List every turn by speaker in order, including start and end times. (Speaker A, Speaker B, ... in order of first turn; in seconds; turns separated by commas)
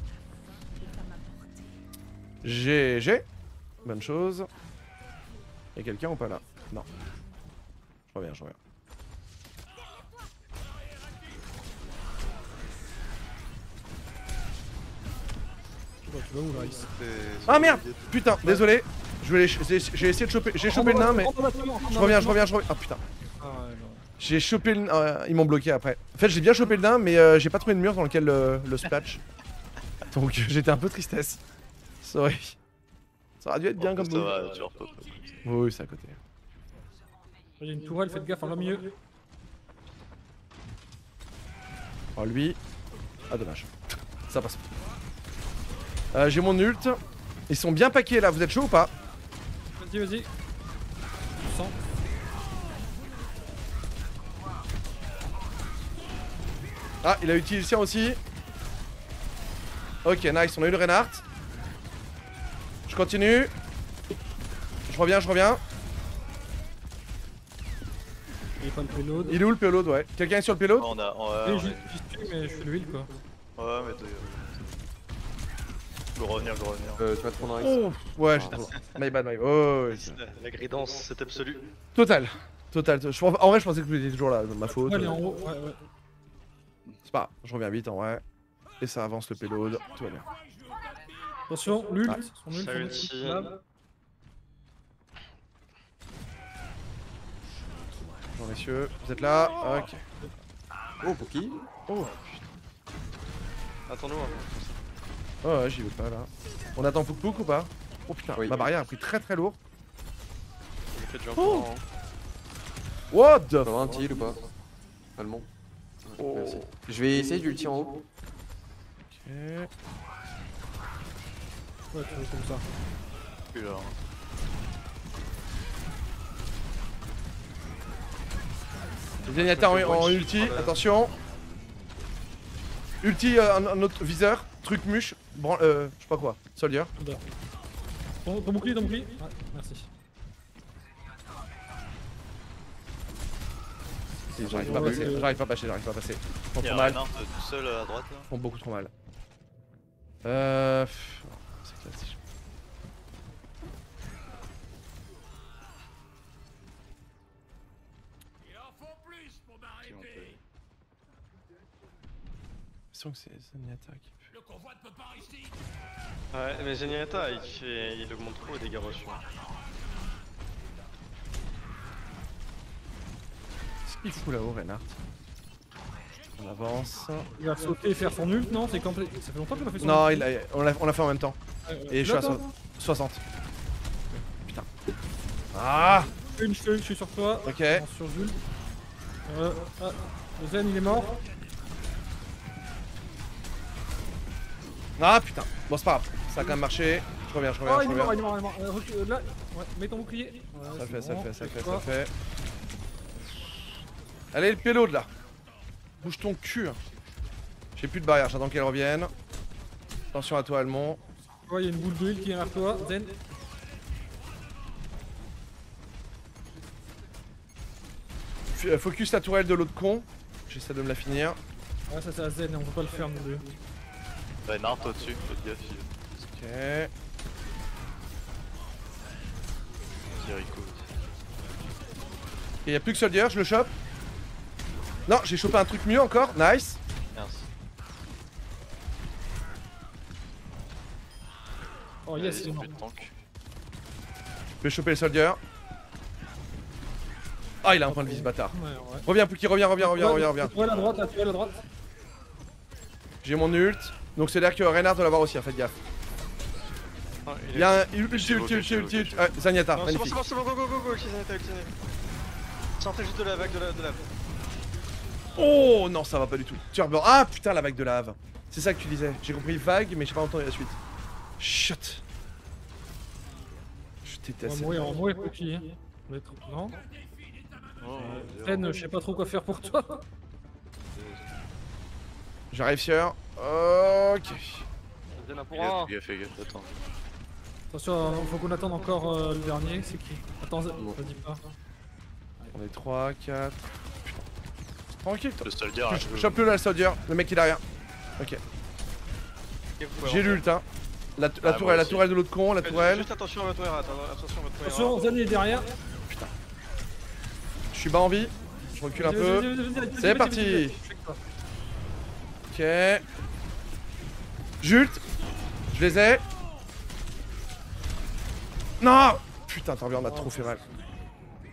Speaker A: 2.4-3.3, Speaker A: 3.8-4.5, Speaker A: 5.8-6.9, Speaker A: 8.1-8.6, Speaker B: 16.0-16.9, Speaker C: 16.9-18.1, Speaker A: 17.5-21.3, Speaker B: 20.6-22.4, Speaker A: 21.9-23.0, Speaker B: 23.4-24.1, Speaker A: 24.2-29.2, Speaker A: 30.1-31.4, Speaker A: 32.0-32.6, Speaker A: 33.4-34.4, Speaker C: 33.8-35.5, Speaker A: 35.4-36.2, Speaker B: 37.6-38.9, Speaker A: 42.2-42.6, Speaker A: 43.3-43.7, Speaker A: 44.3-44.6, Speaker A: 46.1-48.9, Speaker B: 49.7-50.3, Speaker B: 51.4-51.8, Speaker A: 57.0-58.2, Speaker A: 60.0-61.2, Speaker A: 62.9-63.5, Speaker A: 64.9-65.6, Speaker B: 68.6-69.4, Speaker A: 69.3-70.9, Speaker C: 70.8-71.9, Speaker B: 71.4-73.1, Speaker C: 73.6-74.8, Speaker C: 76.2-77.0, Speaker D: 77.0-78.7, Speaker A: 77.6-80.2, Speaker C: 78.5-79.0, Speaker E: 79.9-81.7, Speaker A: 82.0-85.2, Speaker B: 84.7-85.8, Speaker A: 87.1-88.2, Speaker A: 88.8-90.3, Speaker B: 91.5-93.6, Speaker E: 92.5-93.5, Speaker A: 98.4-100.0, Speaker D: 101.0-101.7, Speaker A: 101.9-102.1, Speaker E: 103.9-104.8, Speaker A: 105.4-109.6, Speaker D: 108.4-108.7, Speaker E: 110.9-111.8, Speaker A: 111.4-111.7, Speaker A: 113.1-113.7, Speaker D: 113.6-114.5, Speaker D: 115.2-115.5, Speaker D: 116.0-118.0, Speaker A: 116.2-116.7, Speaker A: 119.1-119.7, Speaker B: 121.9-122.7, Speaker C: 123.5-124.0, Speaker A: 129.2-131.1, Speaker E: 129.3-130.8, Speaker A: 133.0-136.9, Speaker B: 137.0-137.2, Speaker B: 138.2-139.9, Speaker D: 144.3-145.2, Speaker A: 144.4-147.0, Speaker B: 144.6-145.3, Speaker C: 146.6-148.3, Speaker A: 148.3-148.9, Speaker A: 150.2-152.2, Speaker C: 159.8-160.4, Speaker A: 162.9-164.3, Speaker E: 166.3-169.2, Speaker A: 173.9-175.0, Speaker A: 176.4-177.3, Speaker B: 177.4-180.3, Speaker A: 179.8-181.4, Speaker B: 181.7-182.5, Speaker A: 181.9-183.2, Speaker A: 185.5-186.1, Speaker B: 186.3-188.4, Speaker A: 187.4-187.8, Speaker B: 189.3-191.2, Speaker A: 195.0-198.2, Speaker B: 197.7-201.9, Speaker A: 200.8-202.1, Speaker A: 204.3-205.1, Speaker A: 206.0-206.8, Speaker A: 207.8-209.1, Speaker A: 210.1-211.0, Speaker B: 211.5-213.2, Speaker A: 218.5-221.4, Speaker B: 221.9-223.6, Speaker C: 224.4-226.2, Speaker A: 226.3-226.9, Speaker C: 230.2-230.9, Speaker A: 232.7-233.7, Speaker A: 235.1-236.8, Speaker C: 237.1-237.5, Speaker B: 242.1-242.8, Speaker C: 242.2-243.2, Speaker A: 244.6-245.4, Speaker A: 247.6-250.6, Speaker B: 247.9-249.1, Speaker B: 249.8-251.6, Speaker A: 253.2-255.8, Speaker E: 257.3-259.1, Speaker A: 257.5-260.2, Speaker C: 258.3-259.1, Speaker E: 259.8-261.7, Speaker E: 262.8-264.1, Speaker A: 265.4-270.8, Speaker A: 271.4-272.0, Speaker A: 274.0-275.0, Speaker B: 274.4-276.8, Speaker C: 277.8-278.7, Speaker B: 278.0-280.0, Speaker C: 280.9-281.3, Speaker A: 282.5-284.6, Speaker E: 285.2-285.9, Speaker C: 285.6-286.8, Speaker B: 287.7-291.4, Speaker A: 292.5-294.3, Speaker A: 295.0-297.6, Speaker C: 295.4-296.4, Speaker E: 299.8-300.4, Speaker A: 300.0-300.6, Speaker A: 301.2-303.1, Speaker C: 301.4-302.1, Speaker E: 302.6-305.1, Speaker B: 304.6-305.7, Speaker A: 307.7-310.8, Speaker B: 308.9-311.2, Speaker A: 312.5-313.0, Speaker A: 314.6-315.0, Speaker A: 315.7-316.2, Speaker A: 318.8-320.6, Speaker B: 320.0-320.8